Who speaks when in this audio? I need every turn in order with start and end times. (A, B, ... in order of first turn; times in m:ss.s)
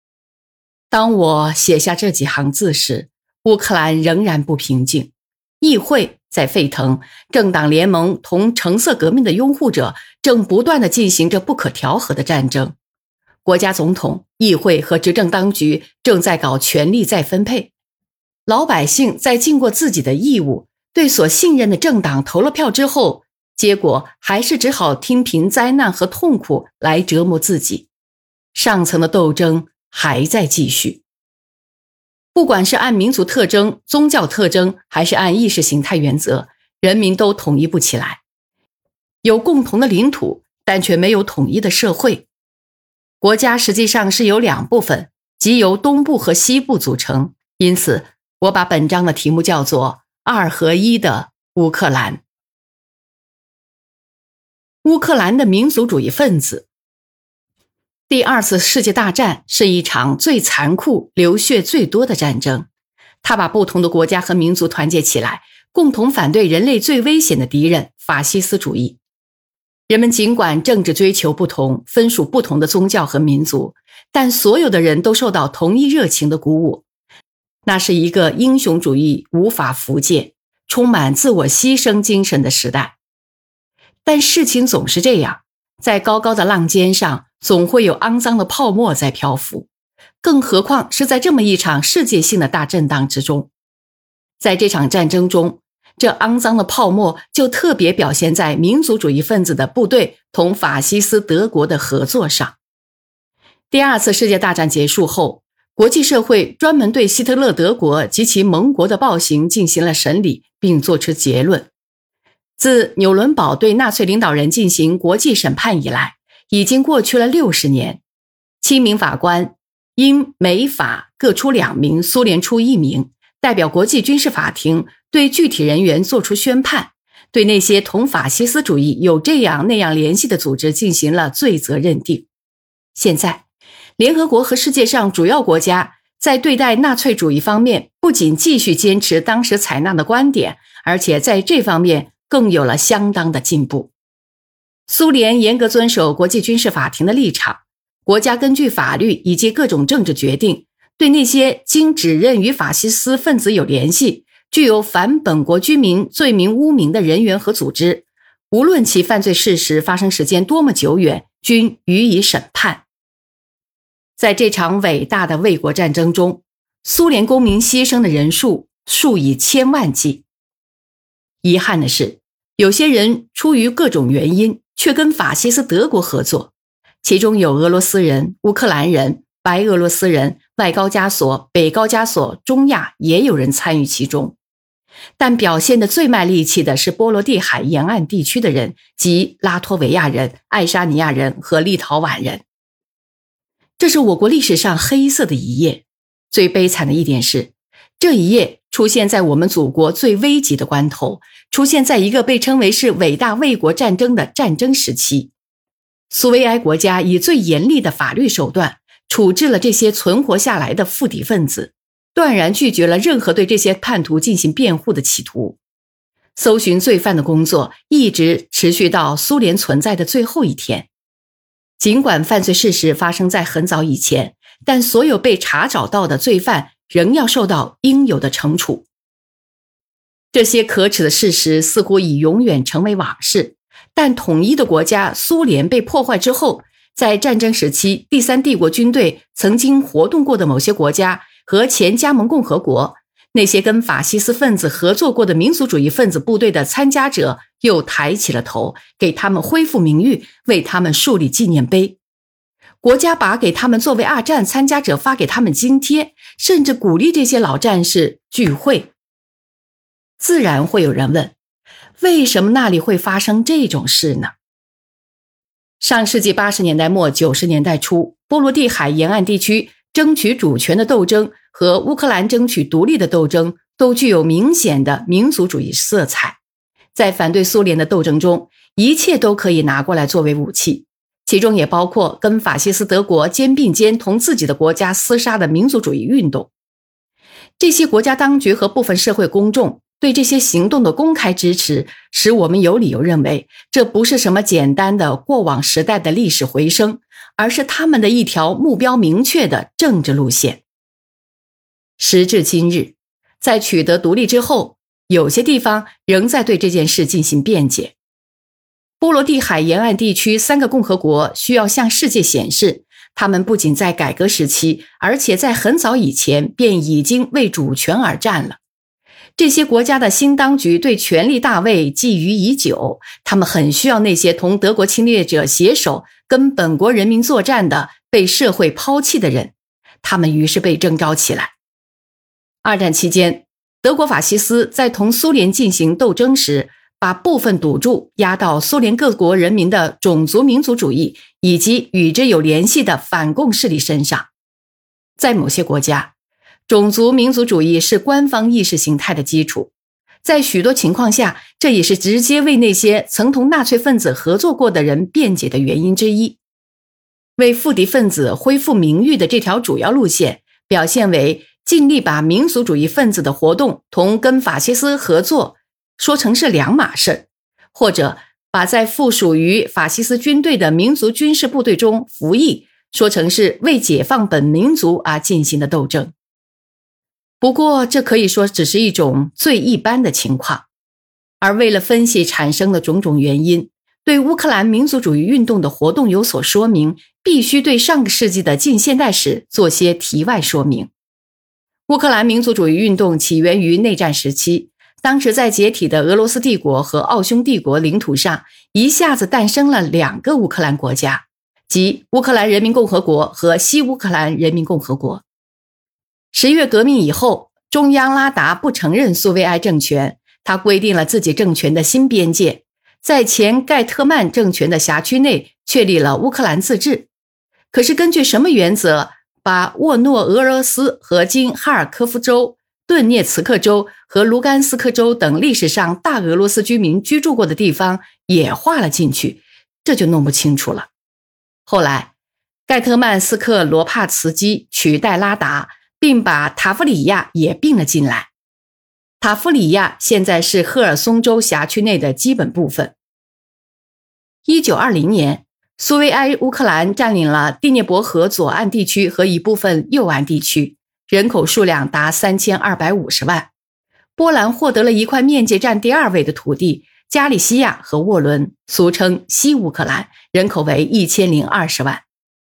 0:00.9-0:12.8 A
0:13.4-0:17.7 A
0:18.5-0:27.9 A
0:28.5-0:31.0 A
0:32.4-0:38.2 A
0:39.2-0:42.3 A
0:43.2-0:52.2 A
0:54.8-0:56.7 A
0:58.1-1:02.7 A
1:03.2-1:09.0 A
1:09.9-1:16.8 A
1:17.7-1:23.0 A
1:24.0-1:29.7 A
1:30.2-1:33.5 A
1:34.4-1:42.6 A
1:43.7-1:51.7 A
1:52.6-1:58.0 A
1:58.6-2:12.3 A
2:13.0-2:13.4 A
2:14.0-2:23.9 A
2:24.9-2:42.8 A
2:44.2-2:50.2 A
2:51.4-3:04.4 A
3:05.2-3:12.4 A
3:13.8-3:25.3 A
3:26.1-3:35.6 A
3:36.4-3:40.9 A
3:41.8-3:48.9 A
3:50.3-4:12.0 A
4:12.8-4:18.9 A
4:20.2-4:21.4 A
4:22.0-4:24.3 A
4:25.8-4:36.4 A
4:37.0-4:46.5 A
4:47.6-5:00.6 A
5:02.0-5:07.9 A
5:09.0-5:18.6 A
5:19.4-5:31.5 A
5:32.6-5:44.3 A
5:45.2-5:46.1 A
5:46.7-5:49.7 A
5:50.2-5:56.4 A
5:57.4-6:16.1 A
6:17.4-6:20.7 A
6:21.4-6:30.9 A
6:31.9-6:45.2 A
6:46.3-6:57.1 A
6:57.7-7:10.9 A
7:11.7-7:12.1 A
7:12.7-7:18.3 A
7:19.2-7:23.0 A
7:24.4-7:33.5 A
7:34.2-7:42.0 A